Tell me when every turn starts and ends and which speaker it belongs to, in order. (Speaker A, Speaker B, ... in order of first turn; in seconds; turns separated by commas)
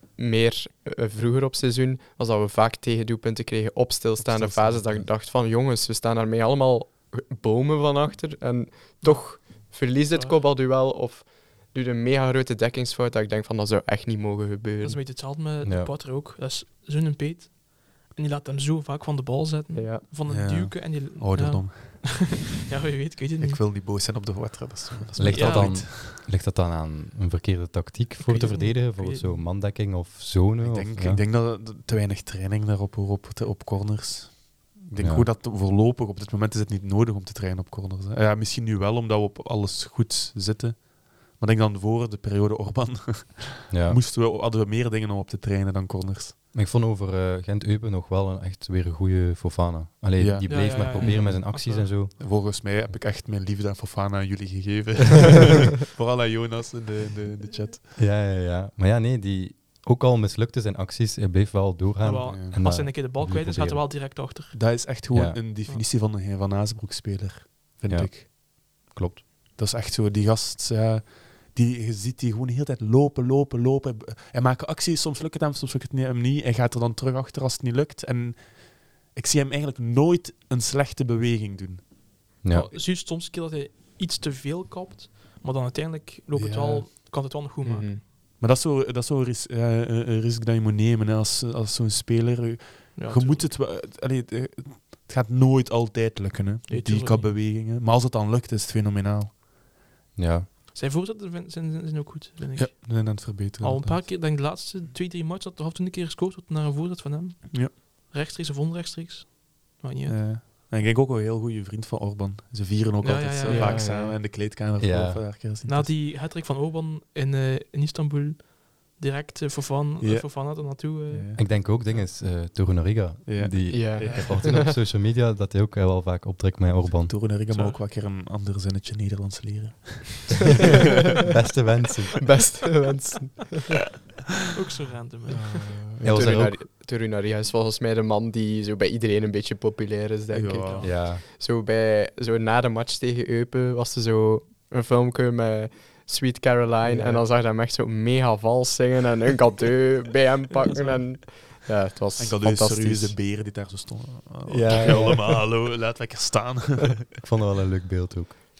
Speaker A: 0.1-15.0, Speaker B: 4.2-5.1, Speaker C: 9.0-10.4, Speaker C: 14.8-23.6, Speaker D: 15.6-15.9, Speaker A: 19.7-20.0, Speaker B: 20.2-22.4, Speaker B: 23.4-26.1, Speaker D: 25.2-31.2, Speaker C: 25.2-25.8, Speaker C: 28.2-29.4, Speaker B: 30.6-46.4, Speaker D: 35.0-35.3, Speaker D: 43.7-44.0, Speaker D: 46.5-52.3, Speaker B: 50.2-51.6, Speaker C: 50.5-51.9, Speaker B: 52.1-57.9, Speaker D: 58.0-63.9, Speaker C: 62.0-64.8, Speaker B: 62.2-62.6, Speaker B: 64.5-68.3, Speaker D: 65.1-65.4, Speaker D: 67.9-69.2, Speaker B: 69.6-81.9, Speaker D: 82.4-82.7, Speaker C: 82.5-88.0, Speaker B: 86.3-86.9, Speaker A: 87.6-88.0, Speaker B: 88.4-99.3, Speaker C: 93.0-93.5, Speaker C: 96.7-97.3, Speaker D: 100.2-100.5, Speaker C: 100.7-110.2, Speaker B: 102.5-104.1, Speaker B: 110.1-115.9, Speaker C: 113.0-113.9, Speaker A: 113.4-114.2, Speaker D: 114.8-115.3, Speaker C: 115.6-121.3, Speaker B: 120.0-121.5, Speaker D: 121.3-127.2, Speaker B: 123.2-124.7, Speaker A: 123.7-124.7, Speaker B: 127.1-130.8, Speaker C: 127.5-127.8, Speaker D: 131.3-132.3, Speaker A: 132.2-133.8, Speaker C: 134.5-135.7, Speaker B: 135.3-136.4, Speaker D: 136.0-136.6, Speaker A: 136.0-153.2, Speaker B: 140.3-140.9, Speaker C: 140.6-140.9, Speaker D: 140.8-141.2, Speaker B: 146.8-147.2, Speaker B: 152.2-157.1, Speaker D: 154.4-155.4, Speaker D: 157.2-158.3